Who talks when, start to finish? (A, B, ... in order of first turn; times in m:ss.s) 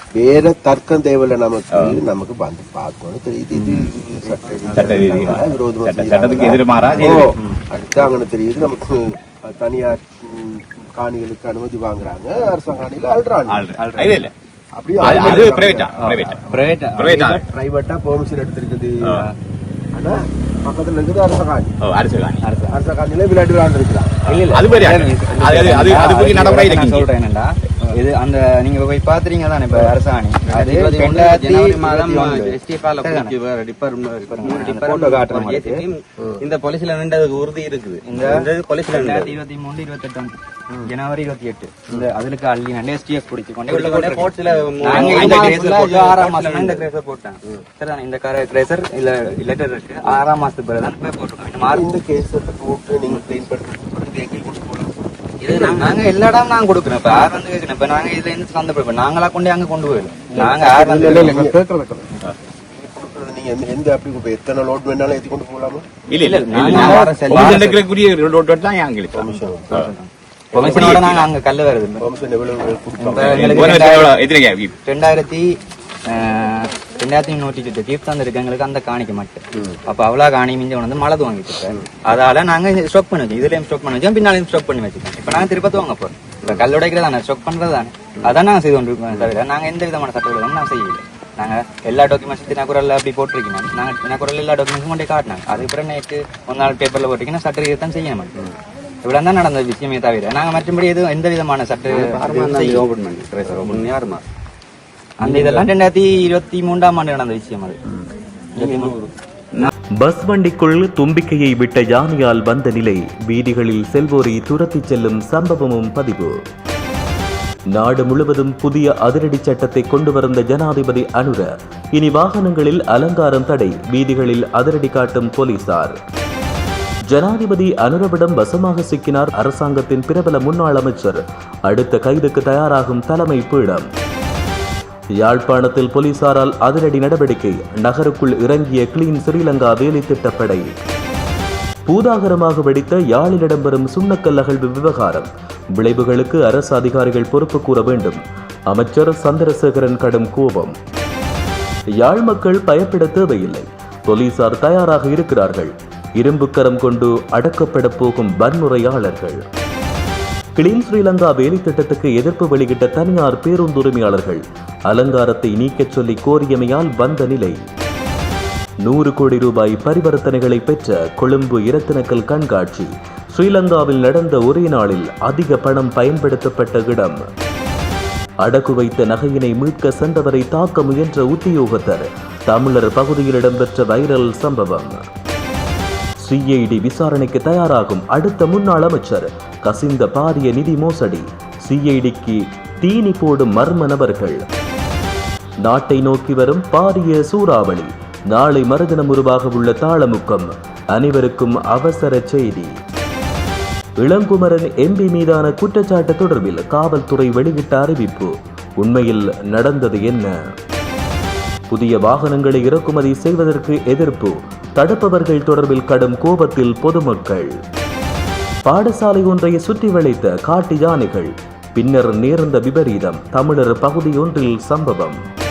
0:00.2-0:13.7 A
0:01.7-0:02.0 B
0:04.8-0:07.4 B
0:07.0-0:07.6 C
0:13.5-0:14.3 B
0:13.8-0:14.3 C
0:14.7-0:16.4 A
0:15.0-0:16.4 B
0:15.1-0:15.4 C
0:16.0-0:17.3 C
0:17.0-0:17.4 B
0:17.1-0:19.2 A
0:19.9-0:21.7 A
0:21.8-0:22.5 B
0:22.4-0:22.8 C
0:22.7-0:24.2 A
0:24.3-0:27.1 B
0:24.3-0:33.4 C
0:30.5-0:39.4 D
0:34.4-0:35.9 C
0:38.0-0:40.3 C
0:40.8-0:51.9 C
0:43.7-0:46.9 D
0:51.7-0:55.9 A
0:55.4-1:01.5 C
1:00.3-1:02.1 A
1:02.7-1:05.9 A
1:06.1-1:09.9 B
1:06.2-1:07.8 C
1:09.1-1:09.9 A
1:09.7-1:12.1 C
1:10.5-1:11.1 A
1:10.6-1:11.3 B
1:12.0-1:14.0 A
1:13.0-1:14.2 C
1:13.2-1:14.8 B
1:14.8-1:15.5 C
1:16.1-1:38.3 C
1:39.0-1:42.9 C
1:41.9-1:44.2 D
1:43.5-1:43.9 C
1:45.2-1:47.8 C
1:45.2-1:45.6 D
1:48.6-1:49.0 C
1:48.6-1:49.1 D
1:50.0-1:56.4 E
1:57.7-2:06.0 E
2:07.1-2:13.9 E
2:15.2-2:20.7 E
2:21.9-2:30.7 E
2:32.0-2:39.4 E
2:40.6-2:47.6 E
2:48.8-2:57.2 E
2:58.4-3:05.0 E
3:06.2-3:14.4 E
3:15.6-3:22.7 E
3:24.0-3:30.3 E
3:31.7-3:37.5 E
3:38.7-3:45.2 E